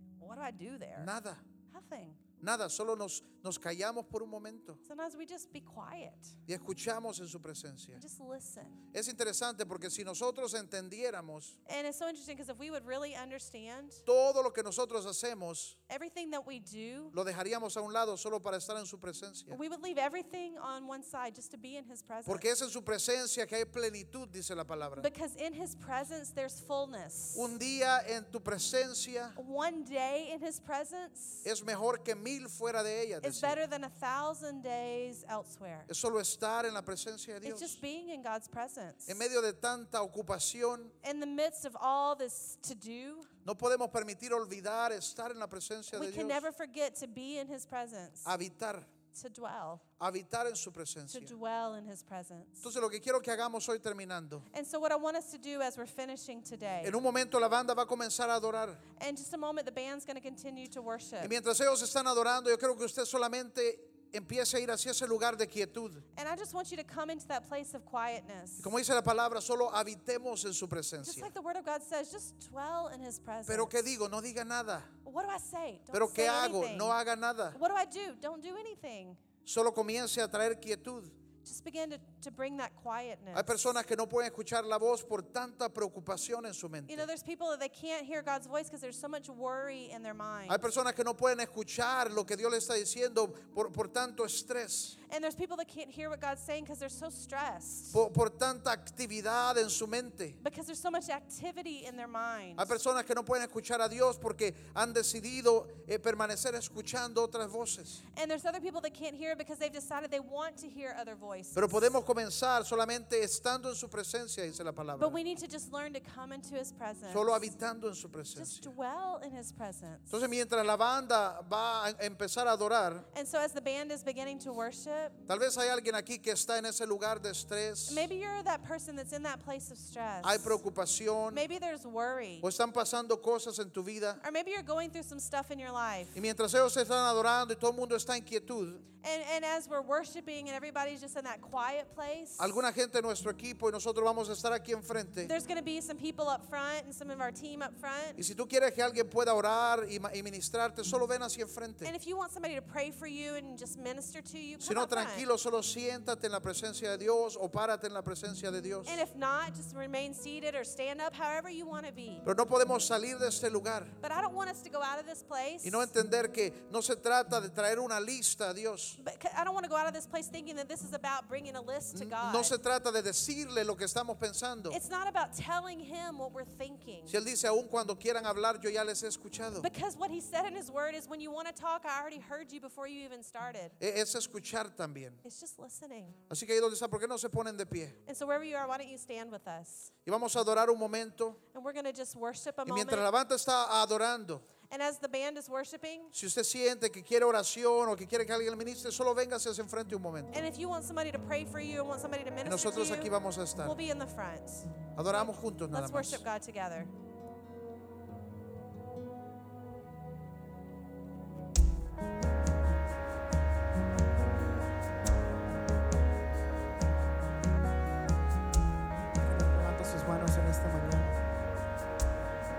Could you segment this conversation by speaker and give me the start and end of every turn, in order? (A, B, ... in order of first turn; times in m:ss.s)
0:00.2-0:01.1 A
0:01.0-0:01.4 B
0:01.7-0:02.2 A
0:02.4-0:04.8 B
0:04.8-0:06.4 A
0:06.5-0:08.0 B
0:08.0-0:08.8 A
0:08.9-0:11.6 B
0:11.6-0:14.0 A
0:14.0-0:15.8 B
0:15.9-0:17.1 A
0:17.1-0:19.6 B
0:19.5-0:22.4 A
0:22.2-0:25.1 B
0:25.0-0:27.5 A
0:27.3-0:29.4 B
0:29.4-0:31.4 A
0:31.4-0:33.6 B
0:33.2-0:35.9 A
0:35.9-0:37.8 B
0:37.4-0:39.2 A
0:39.1-0:41.0 B
0:41.0-0:43.3 A
0:43.4-0:46.4 B
0:45.9-0:48.3 A
0:48.2-0:48.9 B
0:49.1-0:49.8 A
0:50.0-0:51.3 B
0:51.1-0:52.7 A
0:52.6-0:54.5 B
0:54.5-0:57.0 A
0:56.8-0:58.8 B
0:59.0-1:01.3 A
1:01.2-1:06.0 B
1:06.1-1:08.7 A
1:08.6-1:11.3 B
1:11.0-1:13.7 A
1:13.4-1:14.9 B
1:15.0-1:17.0 A
1:15.9-1:17.6 B
1:17.5-1:19.2 A
1:19.4-1:21.1 B
1:21.4-1:23.7 A
1:23.3-1:27.1 B
1:26.9-1:30.6 A
1:30.5-1:35.0 B
1:35.0-1:38.0 A
1:37.9-1:40.4 B
1:40.4-1:42.7 A
1:42.6-1:48.0 B
1:48.1-1:51.9 A
1:51.5-1:55.2 B
1:55.0-1:57.5 A
1:57.1-1:58.7 B
1:58.3-2:00.1 A
2:00.1-2:03.1 B
2:03.1-2:05.2 A
2:05.3-2:08.1 B
2:07.9-2:10.6 A
2:10.2-2:11.4 B
2:11.3-2:12.4 A
2:12.4-2:14.2 B
2:14.2-2:16.2 A
2:16.1-2:18.8 B
2:19.0-2:22.6 A
2:22.4-2:25.3 B
2:25.2-2:28.2 A
2:28.2-2:31.9 B
2:31.8-2:35.2 A
2:34.6-2:39.0 B
2:38.8-2:42.2 A
2:42.2-2:44.0 B
2:44.0-2:45.9 A
2:45.6-2:49.0 B
2:49.0-2:52.6 A
2:51.9-2:54.8 B
2:54.7-2:57.2 A
2:57.1-2:59.7 B
2:59.6-3:03.8 A
3:03.8-3:05.2 B
3:05.2-3:06.2 A
3:06.3-3:08.0 B
3:08.0-3:09.9 A
3:10.0-3:11.4 B
3:11.5-3:13.1 A
3:12.6-3:14.4 B
3:14.7-3:16.1 A
3:16.1-3:20.4 B
3:20.3-3:26.9 A
3:22.4-3:23.8 B
3:24.9-3:26.2 B
3:39.2-3:41.2 C